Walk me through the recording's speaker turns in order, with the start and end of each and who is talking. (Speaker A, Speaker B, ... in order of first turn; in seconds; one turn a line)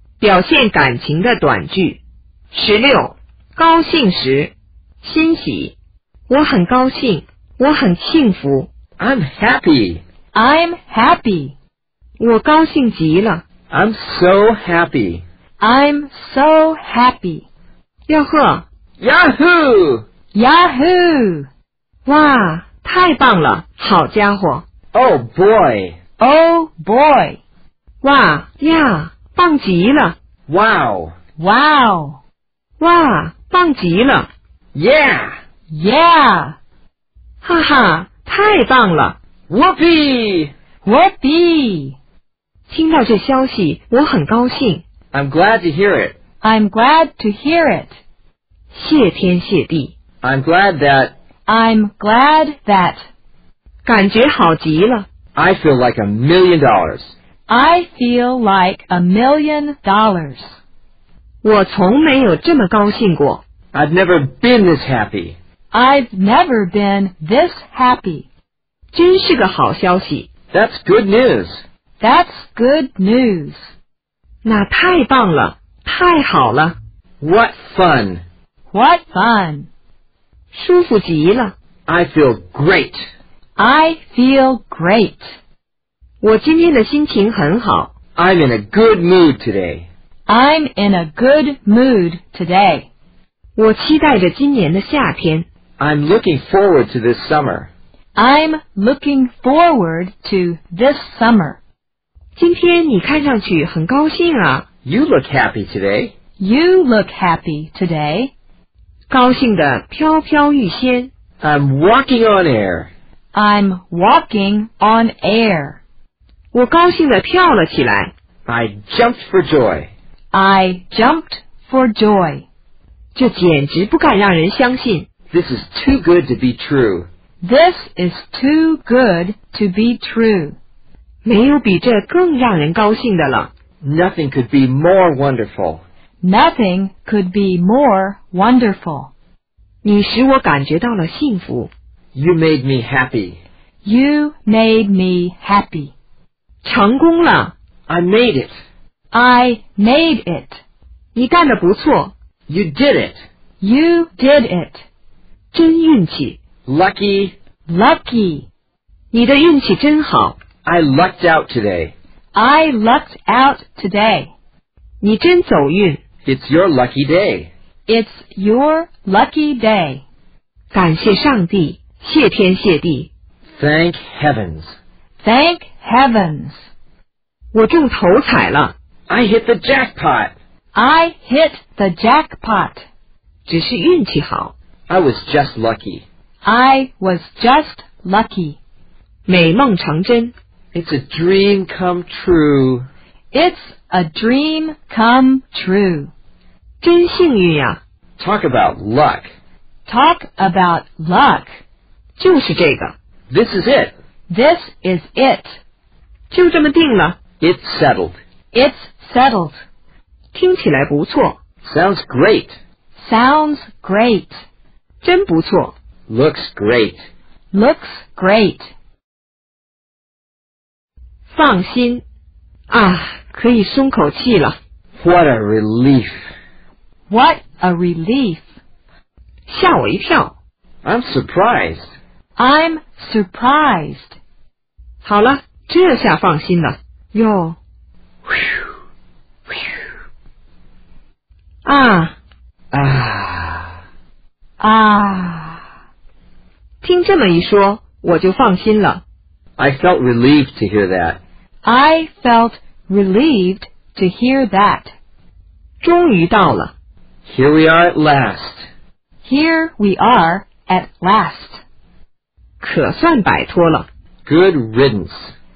Speaker A: 0.2-2.0
Speaker A: 2.5-5.8
Speaker A: 6.3-8.7
Speaker B: 9.0-10.0
Speaker C: 10.3-11.5
Speaker A: 12.2-13.4
Speaker B: 13.7-15.2
Speaker C: 15.6-17.4
Speaker A: 18.1-18.6
Speaker B: 19.0-20.0
Speaker C: 20.3-21.5
Speaker A: 22.0-24.6
Speaker B: 24.9-26.0
Speaker C: 26.2-27.4
Speaker A: 28.0-30.2
Speaker B: 30.5-31.1
Speaker C: 31.4-32.2
Speaker A: 32.8-34.3
Speaker B: 34.7-35.4
Speaker C: 35.7-36.6
Speaker A: 37.4-39.2
Speaker B: 39.5-40.5
Speaker C: 40.8-42.0
Speaker A: 42.7-44.8
Speaker B: 45.1-46.1
Speaker C: 46.4-48.0
Speaker A: 48.7-49.9
Speaker B: 50.2-51.1
Speaker C: 51.5-53.0
Speaker A: 53.8-55.1
Speaker B: 55.3-57.1
Speaker C: 57.5-60.6
Speaker A: 61.4-63.4
Speaker B: 63.7-65.3
Speaker C: 65.7-68.3
Speaker A: 68.9-70.3
Speaker B: 70.5-71.6
Speaker C: 72.0-73.7
Speaker A: 74.4-76.7
Speaker B: 77.2-78.2
Speaker C: 78.7-79.7
Speaker A: 80.5-81.5
Speaker B: 81.9-83.1
Speaker C: 83.6-85.3
Speaker A: 86.2-87.9
Speaker B: 88.2-89.8
Speaker C: 90.3-92.9
Speaker A: 93.5-95.5
Speaker B: 95.8-97.7
Speaker C: 98.2-101.6
Speaker A: 102.3-104.7
Speaker B: 104.8-106.1
Speaker C: 106.4-108.3
Speaker A: 109.1-111.1
Speaker B: 111.4-112.9
Speaker C: 113.3-115.8
Speaker A: 116.5-118.1
Speaker B: 118.5-119.9
Speaker C: 120.3-122.5
Speaker A: 123.1-125.1
Speaker B: 125.3-127.1
Speaker C: 127.4-130.6
Speaker A: 131.2-133.5
Speaker B: 133.8-135.8
Speaker C: 136.2-139.1
Speaker A: 139.8-141.7
Speaker B: 142.1-143.4
Speaker C: 143.8-145.9
Speaker A: 146.6-147.5
Speaker B: 147.9-148.5
Speaker C: 149.1-150.6
Speaker A: 151.1-152.1
Speaker B: 152.5-153.2
Speaker C: 153.6-154.8
Speaker A: 155.5-156.4
Speaker B: 156.7-157.3
Speaker C: 157.7-158.5
Speaker A: 159.1-160.4
Speaker B: 160.6-161.9
Speaker C: 162.3-164.3
Speaker A: 165.0-166.0
Speaker B: 166.2-167.5
Speaker C: 167.9-170.0
Speaker A: 170.7-173.1
Speaker B: 173.5-174.8
Speaker C: 175.2-176.7
Speaker A: 177.5-178.7
Speaker B: 179.1-180.3
Speaker C: 180.7-182.8
Speaker A: 183.5-184.5
Speaker B: 184.9-186.0
Speaker C: 186.4-188.6
Speaker A: 189.3-190.3
Speaker B: 190.7-192.8
Speaker C: 193.3-196.1
Speaker A: 196.8-197.8
Speaker B: 198.2-199.3
Speaker C: 199.8-201.6
Speaker A: 202.2-202.9
Speaker B: 203.3-203.9
Speaker C: 204.3-205.6
Speaker A: 206.3-207.2
Speaker B: 207.4-208.2
Speaker C: 208.5-209.6
Speaker A: 210.3-211.4
Speaker B: 211.6-212.6
Speaker C: 212.9-214.4
Speaker A: 215.0-215.7
Speaker B: 216.1-217.1
Speaker C: 217.5-218.7
Speaker A: 221.3-222.0
Speaker A: 222.7-224.6
Speaker B: 225.0-226.2
Speaker C: 227.1-228.4
Speaker A: 229.5-230.3
Speaker B: 230.8-231.9
Speaker C: 232.4-234.2
Speaker A: 235.0-237.6
Speaker A: 241.6-242.1
Speaker B: 242.7-243.7
Speaker C: 244.6-245.6
Speaker A: 246.8-249.0
Speaker B: 249.6-251.2
Speaker C: 251.6-254.9
Speaker A: 255.8-256.7
Speaker B: 257.2-258.7
Speaker C: 259.2-261.6
Speaker A: 262.6-263.9
Speaker B: 264.2-265.3